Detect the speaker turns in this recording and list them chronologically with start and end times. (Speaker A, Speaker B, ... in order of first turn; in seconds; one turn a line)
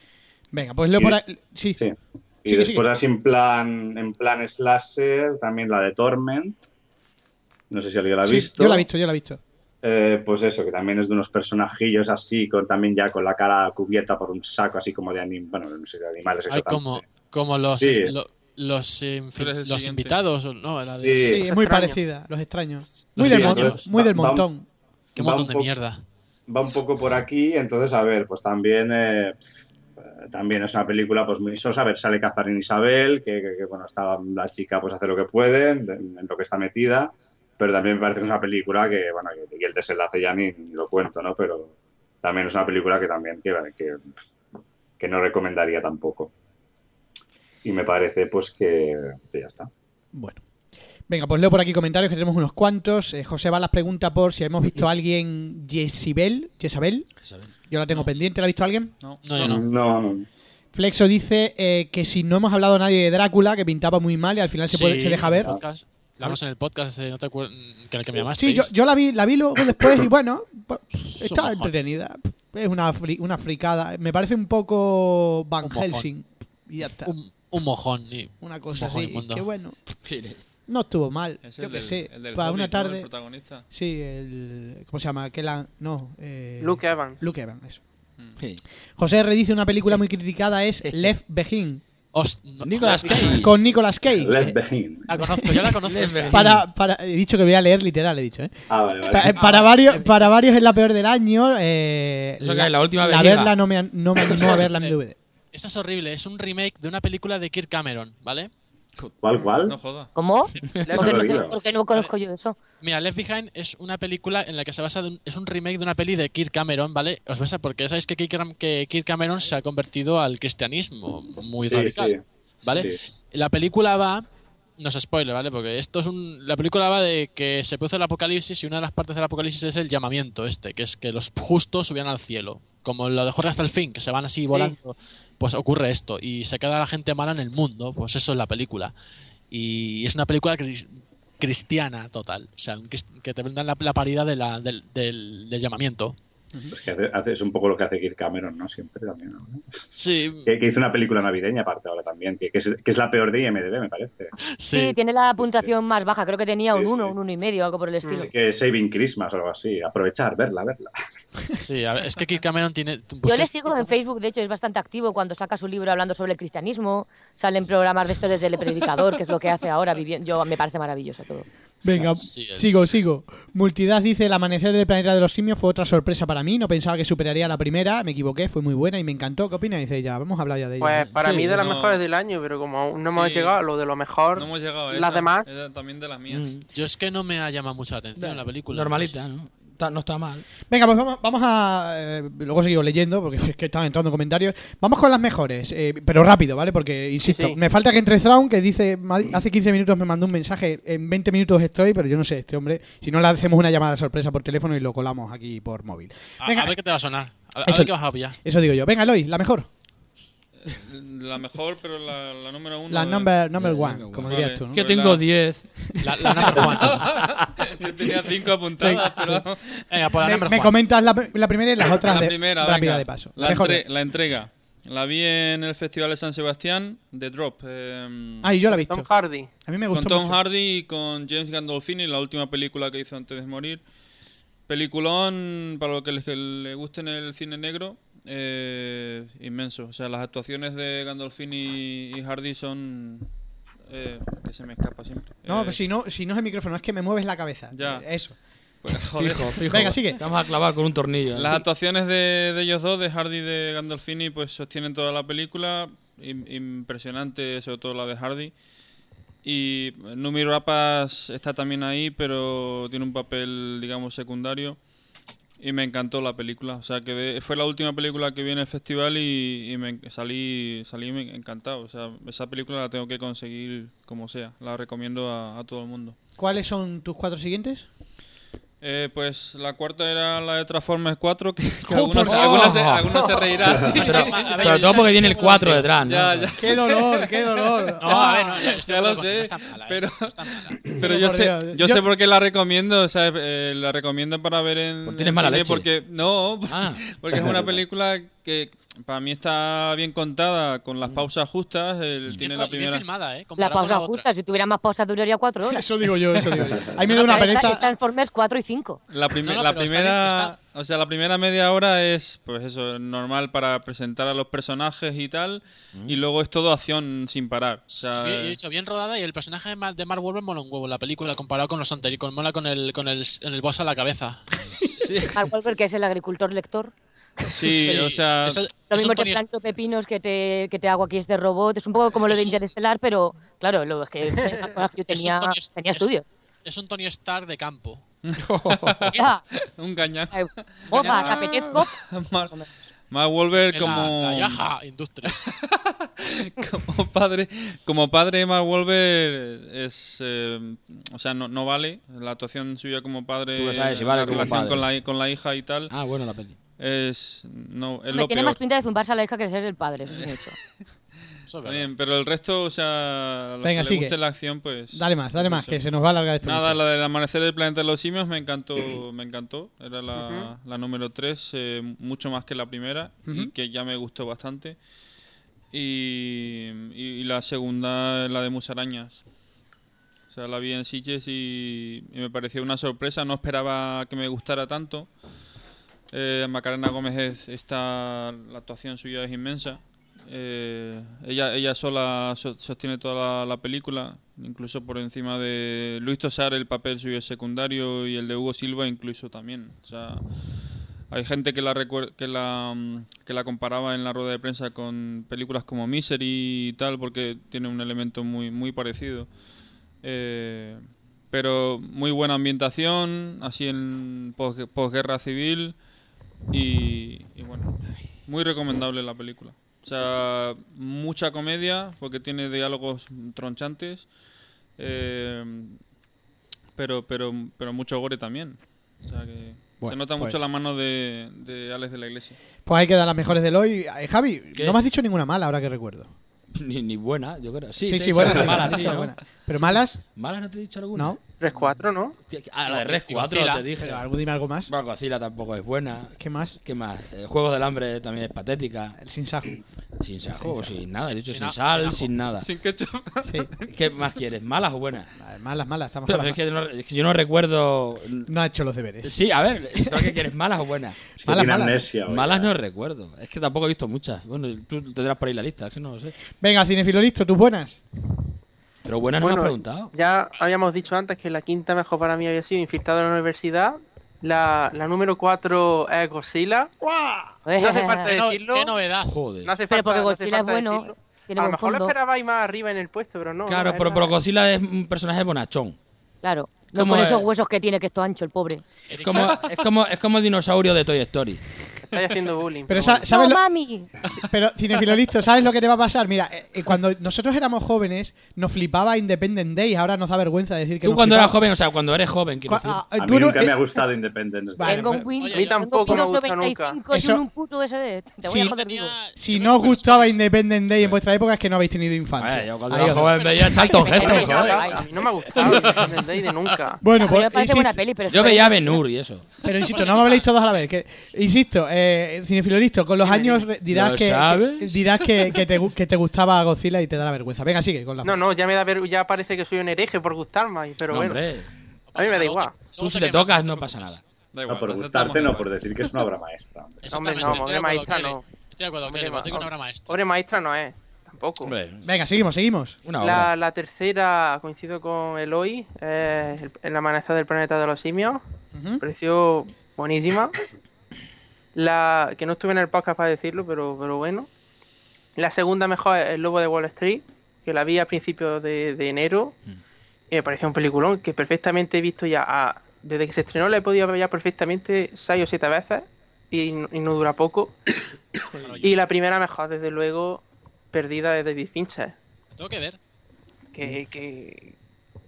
Speaker A: 0.5-1.8
Speaker B: 1.8-6.6
Speaker A: 2.5-2.9
Speaker B: 7.7-8.8
Speaker A: 8.2-9.4
Speaker B: 9.8-17.0
Speaker C: 16.5-21.4
Speaker B: 17.7-18.1
Speaker D: 19.4-20.2
Speaker B: 20.9-21.5
Speaker A: 21.2-24.7
Speaker E: 21.5-22.0
Speaker B: 23.0-24.5
Speaker C: 23.1-23.9
Speaker B: 25.1-25.7
Speaker C: 25.1-26.0
Speaker B: 26.5-29.5
Speaker B: 30.1-44.1
Speaker B: 45.0-46.3
Speaker B: 47.6-49.7
Speaker A: 50.1-50.4
Speaker A: 51.1-57.1
Speaker F: 57.2-57.5
Speaker A: 57.6-58.9
Speaker D: 59.0-59.3
Speaker C: 59.2-59.6
Speaker B: 59.4-60.3
Speaker A: 60.7-65.6
Speaker C: 64.7-68.7
Speaker A: 68.3-77.1
Speaker C: 71.2-71.7
Speaker C: 75.6-76.1
Speaker C: 77.0-79.4
Speaker A: 78.4-79.8
Speaker F: 80.0-80.4
Speaker A: 80.7-83.1
Speaker D: 81.4-83.6
Speaker A: 83.7-87.8
Speaker E: 86.6-87.2
Speaker A: 89.0-91.8
Speaker C: 92.1-93.5
Speaker F: 92.6-93.6
Speaker A: 93.4-94.5
Speaker B: 94.2-95.1
Speaker C: 95.1-96.5
Speaker A: 95.1-95.7
Speaker F: 95.8-96.6
Speaker A: 96.3-105.2
Speaker B: 98.7-99.7
Speaker F: 102.4-103.6
Speaker C: 104.7-104.9
Speaker C: 105.5-108.5
Speaker B: 109.2-109.8
Speaker D: 109.6-110.1
Speaker G: 110.2-112.6
Speaker F: 110.6-110.9
Speaker E: 110.8-111.5
Speaker B: 110.9-111.6
Speaker C: 112.8-124.2
Speaker B: 121.7-123.0
Speaker C: 124.8-138.9
Speaker C: 139.5-146.2
Speaker B: 146.7-149.7
Speaker C: 149.9-150.5
Speaker B: 150.4-154.3
Speaker C: 154.5-154.9
Speaker G: 154.7-158.3
Speaker B: 155.4-155.7
Speaker B: 156.7-157.2
Speaker E: 158.0-158.3
Speaker B: 158.2-160.9
Speaker C: 161.6-163.9
Speaker G: 163.2-171.5
Speaker A: 171.8-181.1
Speaker C: 171.9-173.0
Speaker E: 180.8-185.5
Speaker F: 181.1-181.7
Speaker D: 181.3-182.0
Speaker D: 183.1-183.6
Speaker D: 184.3-186.5
Speaker F: 186.3-186.7
Speaker C: 186.7-189.1
Speaker F: 188.2-190.4
Speaker A: 190.7-206.8
Speaker E: 197.2-197.6
Speaker C: 206.4-208.4
Speaker A: 207.6-209.7
Speaker D: 210.6-213.4
Speaker A: 212.9-214.8
Speaker F: 213.6-215.8
Speaker D: 214.2-215.4
Speaker A: 215.8-216.8
Speaker C: 216.0-217.0
Speaker D: 216.7-219.9
Speaker A: 218.8-219.4
Speaker C: 219.9-220.7
Speaker A: 220.2-223.8
Speaker D: 222.1-228.5
Speaker A: 228.4-229.1
Speaker E: 228.7-229.5
Speaker A: 229.6-230.4
Speaker D: 229.9-233.8
Speaker D: 234.7-243.3
Speaker D: 243.9-245.8
Speaker A: 245.4-248.3
Speaker D: 247.7-248.1
Speaker D: 248.8-249.8
Speaker F: 249.2-251.6
Speaker A: 249.7-250.2
Speaker D: 251.3-258.5
Speaker D: 259.4-264.8
Speaker D: 265.6-276.1
Speaker A: 276.4-277.9
Speaker D: 278.8-284.9
Speaker A: 281.9-282.9
Speaker F: 282.0-283.3
Speaker F: 283.9-286.6
Speaker C: 284.0-285.9
Speaker D: 285.9-287.5
Speaker A: 286.6-288.7
Speaker C: 288.0-291.0
Speaker D: 288.1-303.1
Speaker A: 291.0-292.1
Speaker F: 295.1-295.9
Speaker F: 296.7-297.8
Speaker C: 302.4-304.3
Speaker G: 303.6-305.8
Speaker A: 305.7-307.9
Speaker G: 307.1-309.0
Speaker C: 307.3-307.6
Speaker D: 309.1-318.6
Speaker C: 309.4-310.5
Speaker F: 315.9-316.2
Speaker C: 317.9-324.5
Speaker D: 325.0-325.4
Speaker G: 325.3-328.0
Speaker D: 327.5-328.6
Speaker C: 327.6-329.4
Speaker G: 328.9-336.2
Speaker C: 332.2-332.6
Speaker C: 335.1-336.1
Speaker C: 336.6-338.0
Speaker D: 338.2-342.6
Speaker F: 338.4-339.1
Speaker G: 339.1-339.4
Speaker G: 340.3-341.9
Speaker C: 340.9-341.4
Speaker D: 343.1-344.6
Speaker C: 343.6-345.4
Speaker D: 345.3-355.9
Speaker F: 353.6-355.0
Speaker F: 355.9-356.6
Speaker D: 356.8-358.6
Speaker G: 358.1-360.6
Speaker D: 360.1-360.4
Speaker C: 361.5-361.9
Speaker D: 361.6-365.8
Speaker A: 363.6-364.2
Speaker A: 364.9-366.8
Speaker D: 366.4-374.8
Speaker E: 370.1-370.5
Speaker A: 373.2-373.5
Speaker D: 375.7-379.2
Speaker D: 380.3-385.1
Speaker D: 386.1-400.3
Speaker D: 401.1-409.3
Speaker D: 410.0-415.8
Speaker D: 416.5-417.7
Speaker D: 418.2-424.1
Speaker D: 424.8-425.8
Speaker D: 426.7-432.4
Speaker A: 429.8-430.4
Speaker A: 432.6-436.1
Speaker F: 436.6-444.1
Speaker A: 437.8-440.1
Speaker A: 440.9-441.2
Speaker E: 441.4-442.2
Speaker C: 442.7-443.6
Speaker A: 443.8-444.7
Speaker F: 444.7-449.0
Speaker A: 446.1-446.6
Speaker A: 449.0-449.6
Speaker F: 450.0-452.5
Speaker A: 450.3-450.8
Speaker C: 451.2-452.1
Speaker D: 452.4-453.7
Speaker A: 453.2-453.5
Speaker F: 453.7-455.1
Speaker A: 455.2-456.4
Speaker F: 456.1-458.3
Speaker A: 458.3-459.2
Speaker F: 459.0-461.1
Speaker A: 459.7-460.2
Speaker B: 461.2-462.5
Speaker A: 461.2-461.8
Speaker F: 462.1-466.1
Speaker A: 466.3-467.8
Speaker F: 468.9-469.9
Speaker E: 469.2-476.7
Speaker A: 476.8-477.4
Speaker G: 477.4-478.1
Speaker E: 477.6-478.8
Speaker C: 478.1-479.1
Speaker F: 479.1-479.6
Speaker E: 479.4-484.1
Speaker G: 479.7-481.9
Speaker F: 483.4-485.8
Speaker G: 486.2-488.6
Speaker F: 486.7-487.3
Speaker C: 488.9-489.5
Speaker F: 489.0-491.4
Speaker E: 491.9-493.1
Speaker A: 492.7-493.4
Speaker G: 493.1-493.9
Speaker A: 494.2-501.4
Speaker F: 500.8-502.8
Speaker A: 502.5-503.8
Speaker B: 503.0-504.9
Speaker A: 504.6-505.1
Speaker G: 504.6-508.9
Speaker C: 505.2-506.1
Speaker E: 505.3-506.8
Speaker A: 506.9-507.2
Speaker C: 508.3-510.2
Speaker A: 509.1-513.4
Speaker F: 512.2-514.6
Speaker C: 512.8-514.5
Speaker G: 513.6-514.8
Speaker E: 513.7-516.8
Speaker A: 516.8-517.8
Speaker G: 517.0-518.8
Speaker F: 518.1-519.3
Speaker A: 519.4-528.2
Speaker C: 519.6-520.4
Speaker E: 523.0-523.5
Speaker F: 523.7-524.8
Speaker E: 528.0-531.2
Speaker F: 530.9-531.8
Speaker C: 531.9-534.0
Speaker E: 532.0-532.7
Speaker F: 532.8-534.0
Speaker D: 534.3-535.5
Speaker B: 534.5-537.4
Speaker C: 536.8-540.0
Speaker E: 536.9-538.2
Speaker E: 538.8-541.5
Speaker F: 541.4-541.9
Speaker A: 541.8-542.8
Speaker F: 542.8-543.3
Speaker E: 543.0-548.2
Speaker A: 548.5-548.8
Speaker E: 548.8-550.4
Speaker E: 551.5-554.3
Speaker E: 555.1-559.4
Speaker E: 560.1-567.6
Speaker C: 568.4-568.8
Speaker E: 568.6-571.9
Speaker C: 572.4-572.8
Speaker E: 573.5-574.5